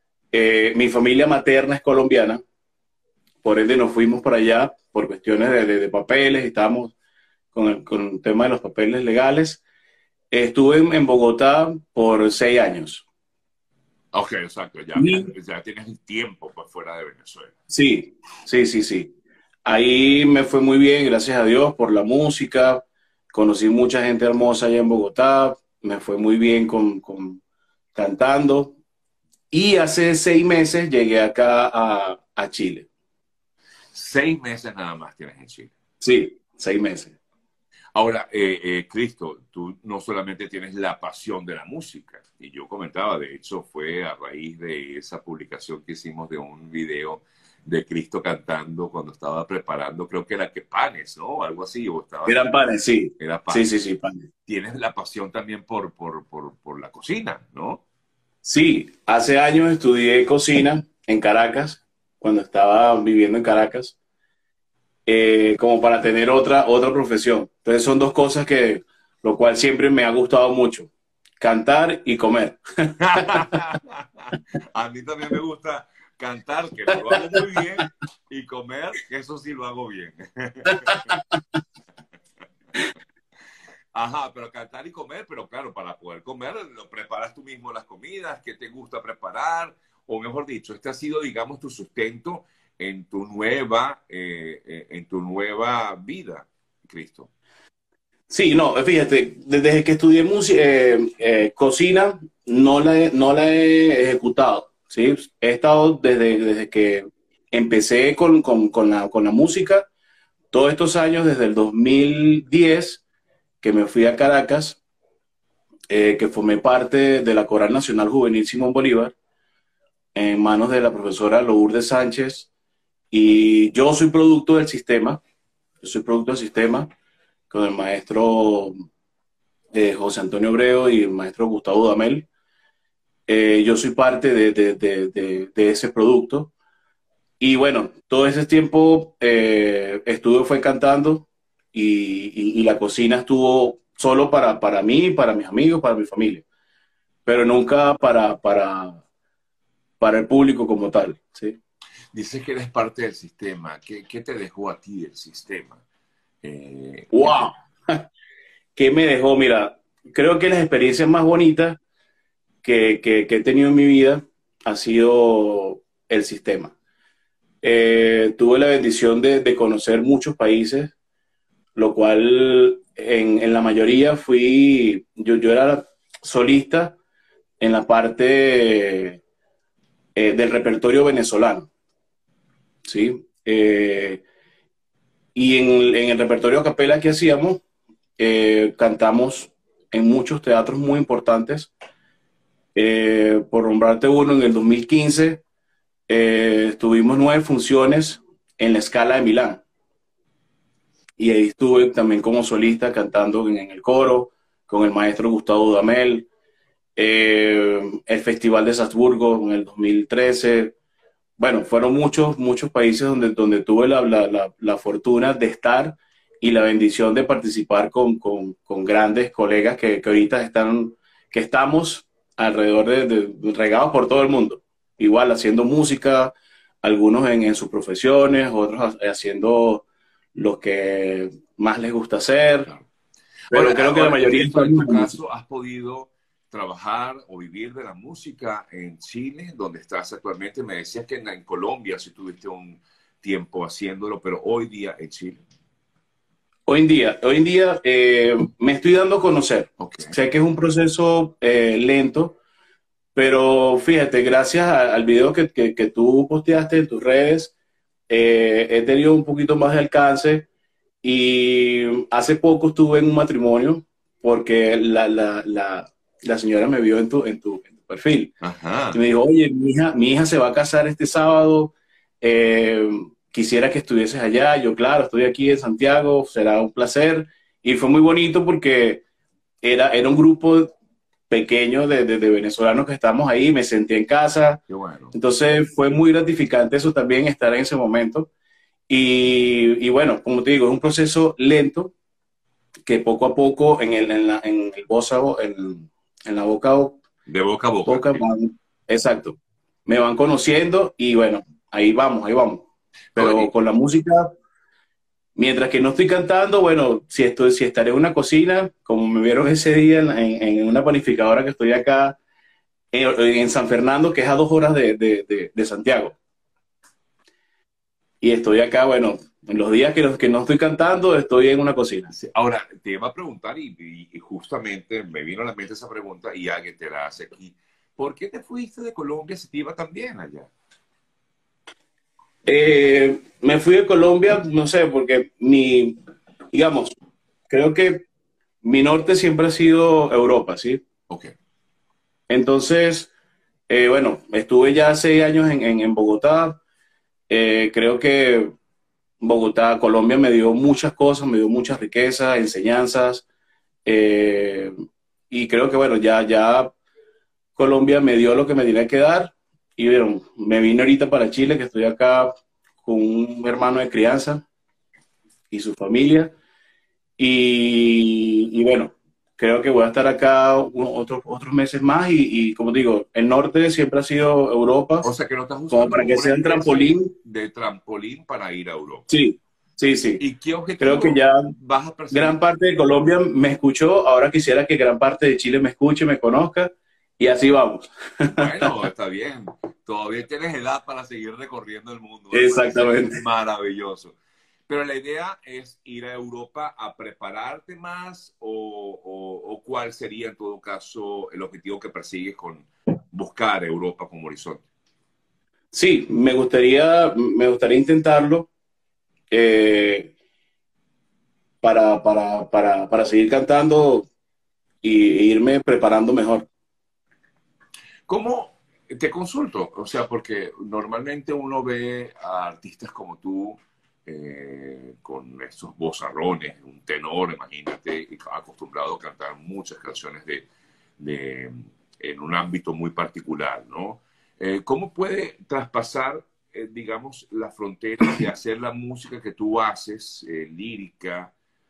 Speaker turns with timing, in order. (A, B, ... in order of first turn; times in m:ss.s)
0:00.3-0:02.4 A
0:03.4-0:06.9 A
0:07.5-0:09.6 A
0:10.3-0:13.0 A
0:14.1-0:17.5 B
0:14.9-0:15.3 A
0:17.7-0:19.1 A
0:19.6-0:27.4 A
0:27.9-0:28.8 A
0:29.5-0:32.9 A
0:33.9-0:35.7 B
0:36.0-0:37.1 A
0:37.9-0:52.4 B
0:52.3-0:54.3 A
0:53.2-0:53.7 B
0:54.5-0:57.8 B
0:58.4-1:04.0 A
1:05.0-1:13.4 A
1:13.0-1:21.1 B
1:23.9-1:37.3 B
1:38.3-1:49.9 A
1:50.5-1:53.0 A
1:53.6-1:54.8 A
1:55.9-1:59.1 A
2:00.1-2:02.5 A
2:03.1-2:05.2 A
2:05.8-2:06.9 A
2:07.5-2:08.7 A
2:09.7-2:12.3 A
2:13.3-2:16.5 A
2:17.4-2:26.4 A
2:27.2-2:29.0 A
2:30.0-2:31.6 A
2:32.1-2:35.8 B
2:36.4-2:37.5 B
2:37.1-2:38.0 A
2:38.8-2:41.8 A
2:42.6-2:46.7 A
2:47.6-2:50.9 A
2:51.7-2:57.0 A
2:57.6-2:59.2 A
3:00.2-3:01.7 A
3:02.8-3:04.2 A
3:05.3-3:07.6 A
3:08.2-3:11.7 A
3:12.7-3:15.4 A
3:16.1-3:19.6 A
3:21.2-3:26.3 A
3:27.0-3:30.7 A
3:31.4-3:52.7 A
3:53.5-4:05.4 B
3:53.5-3:55.2 A
4:06.7-4:12.4 A
4:09.8-4:10.1 B
4:13.1-4:17.5 A
4:18.1-4:20.5 A
4:21.0-4:28.3 A
4:28.4-4:29.0 B
4:28.9-4:39.0 A
4:39.6-4:40.7 A
4:41.3-4:48.3 A
4:44.7-4:45.1 B
4:48.9-4:51.9 A
4:52.8-4:57.0 A
4:57.3-4:58.2 B
4:57.8-5:04.3 A
5:03.1-5:03.5 B
5:05.4-5:12.2 A
5:12.9-5:16.2 A
5:18.2-5:22.1 A
5:22.1-5:30.5 B
5:32.4-5:36.0 A
5:36.5-5:36.9 A
5:37.5-5:38.0 A
5:38.6-5:40.8 A
5:42.3-5:43.1 A
5:43.7-5:46.6 A
5:47.3-5:48.5 A
5:49.2-5:53.2 A
5:53.8-5:54.7 A
5:55.3-5:56.7 A
5:57.6-6:04.4 A
6:05.5-6:06.3 A
6:07.2-6:15.1 A
6:15.0-6:19.1 B
6:15.7-6:17.1 A
6:19.1-6:20.2 A
6:20.2-6:22.4 B
6:20.8-6:21.5 A
6:22.1-6:28.7 A
6:28.3-6:34.2 B
6:32.3-6:33.2 A
6:34.7-6:44.6 B
6:45.7-6:48.5 A
6:49.3-6:50.1 A
6:51.6-6:54.1 A
6:54.8-6:56.5 A
6:58.1-7:10.4 B
7:11.0-7:21.3 B